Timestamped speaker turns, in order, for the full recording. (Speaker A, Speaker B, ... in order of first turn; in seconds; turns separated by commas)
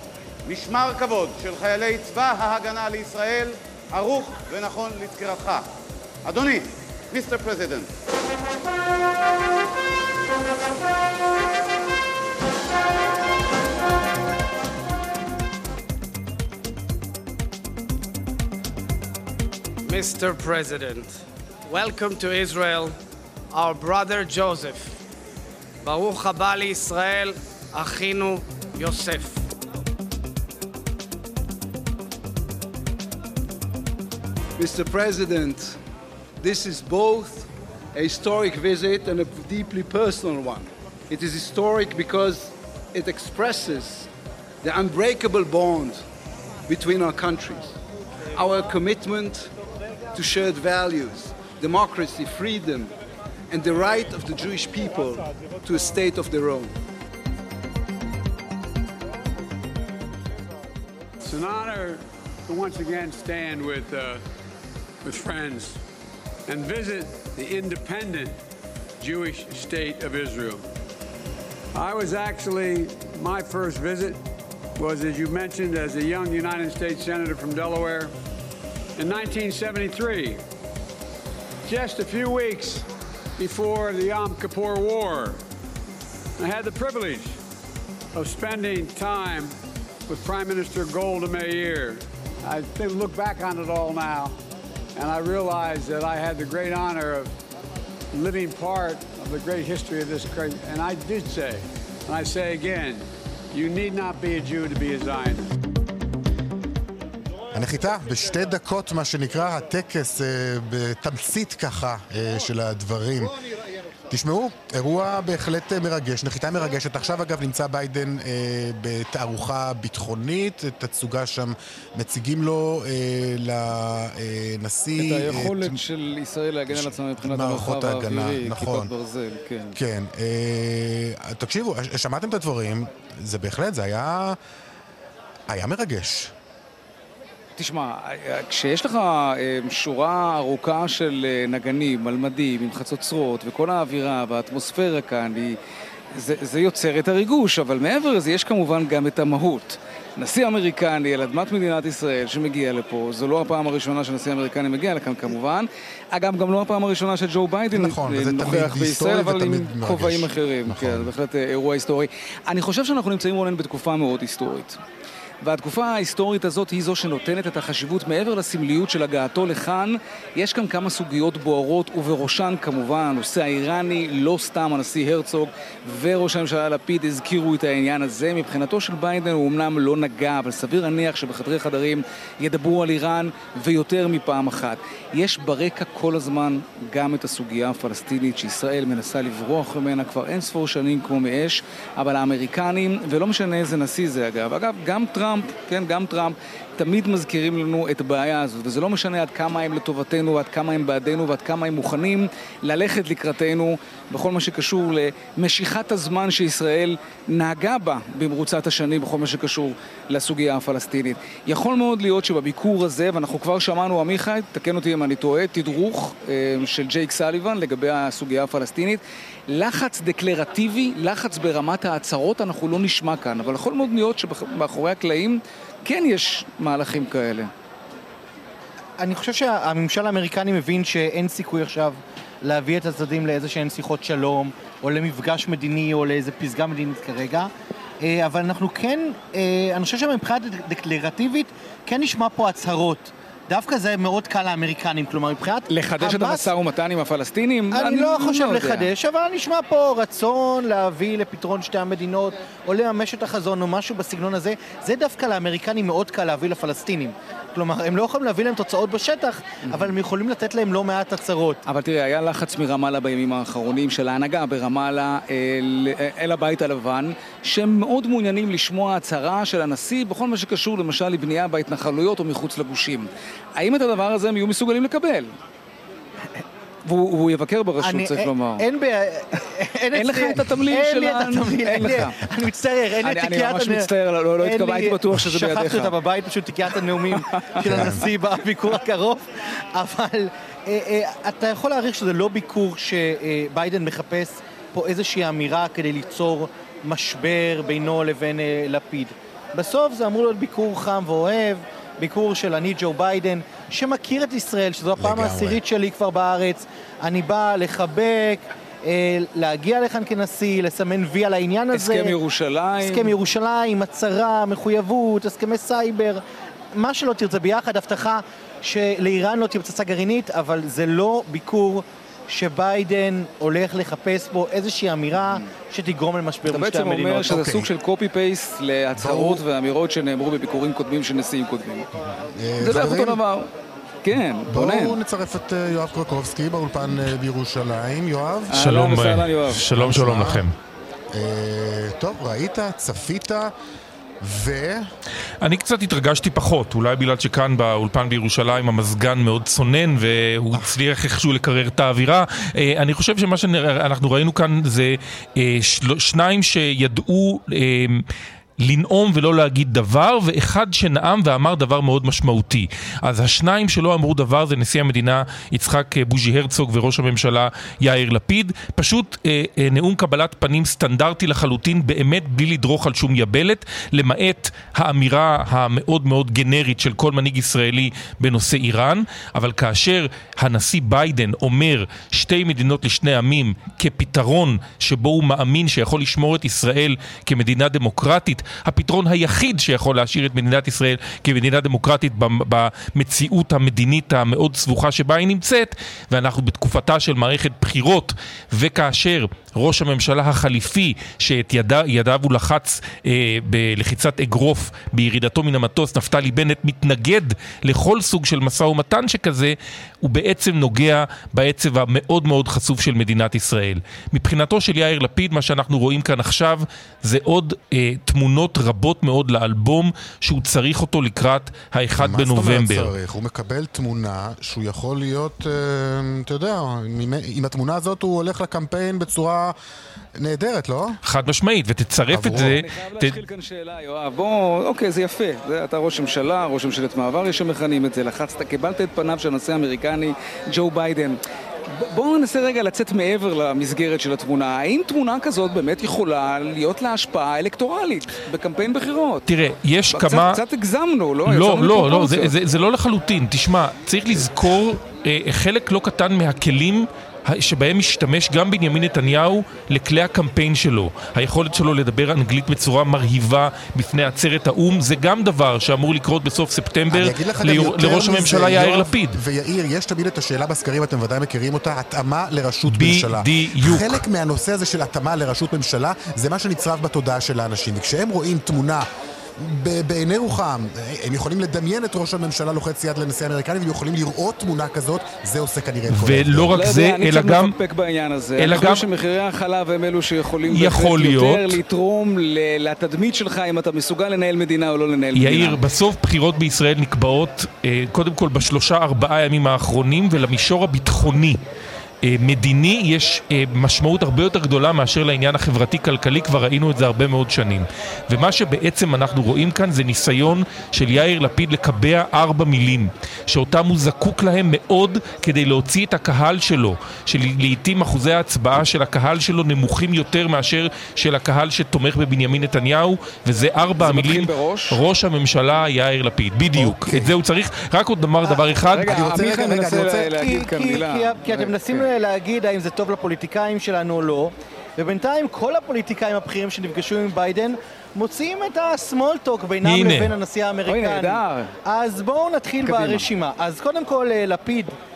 Speaker A: 0.5-5.6, Speaker A: 6.2-7.9, Speaker B: 19.9-23.0, Speaker B: 23.5-25.0, Speaker B: 25.8-29.4, Speaker C: 34.6-35.7, Speaker C: 36.5-37.5, Speaker C: 38.1-40.6, Speaker C: 41.1-44.0, Speaker C: 44.7-46.0, Speaker C: 46.7-47.7, Speaker C: 48.4-49.5, Speaker C: 50.2-52.9, Speaker C: 53.6-56.7, Speaker D: 61.2-64.2, Speaker D: 65.0-65.8, Speaker D: 66.5-68.4, Speaker D: 69.0-70.6, Speaker D: 71.7-74.2, Speaker D: 74.8-78.1, Speaker D: 79.0-80.4, Speaker D: 81.7-82.9, Speaker D: 83.4-85.4, Speaker D: 86.4-87.4, Speaker D: 88.1-89.6, Speaker D: 90.1-94.4, Speaker D: 95.0-97.3, Speaker D: 98.1-105.5, Speaker E: 107.5-113.4, Speaker E: 114.1-125.8, Speaker F: 125.0-129.8, Speaker E: 126.7-128.9, Speaker E: 129.7-134.4, Speaker E: 135.5-136.3, Speaker F: 137.6-145.6, Speaker F: 146.1-164.8, Speaker E: 157.7-161.1, Speaker F: 165.4-227.5, Speaker G: 229.0-237.5, Speaker G: 238.0-246.5, Speaker F: 245.7-248.9, Speaker G: 247.7-261.6, Speaker F: 259.6-259.9, Speaker F: 261.6-275.3, Speaker F: 276.9-278.6, Speaker G: 277.8-312.1, Speaker F: 279.9-282.2, Speaker F: 283.0-285.9, Speaker F: 287.1-288.0, Speaker E: 287.6-288.0, Speaker E: 305.0-305.6, Speaker F: 311.7-313.1, Speaker G: 312.8-316.2, Speaker G: 316.7-327.4, Speaker F: 326.5-331.9, Speaker E: 327.3-327.7, Speaker E: 328.9-329.4, Speaker E: 332.2-333.2, Speaker F: 332.6-333.5, Speaker F: 334.0-335.0, Speaker E: 334.5-338.6, Speaker F: 338.5-339.6, Speaker H: 338.6-340.5, Speaker E: 339.7-340.4, Speaker E: 341.1-343.5, Speaker E: 344.2-344.9, Speaker H: 345.4-358.1, Speaker H: 358.6-422.9, Speaker E: 422.0-429.6, Speaker E: 430.1-431.0, Speaker H: 431.0-433.2, Speaker E: 432.1-432.6, Speaker F: 432.3-449.3, Speaker H: 449.3-450.4, Speaker F: 449.9-452.3, Speaker H: 451.2-469.2, Speaker E: 466.9-478.9, Speaker H: 472.7-474.0, Speaker E: 479.4-486.6, Speaker H: 485.9-487.5, Speaker F: 486.5-495.6, Speaker H: 488.4-488.9, Speaker H: 490.5-491.6, Speaker H: 495.2-501.4, Speaker H: 502.0-529.0, Speaker F: 523.8-524.8, Speaker E: 526.5-527.1, Speaker G: 528.2-528.5, Speaker F: 528.7-531.8, Speaker E: 528.9-530.0, Speaker G: 529.2-544.8, Speaker H: 539.6-540.1, Speaker F: 540.7-541.5, Speaker F: 542.6-543.1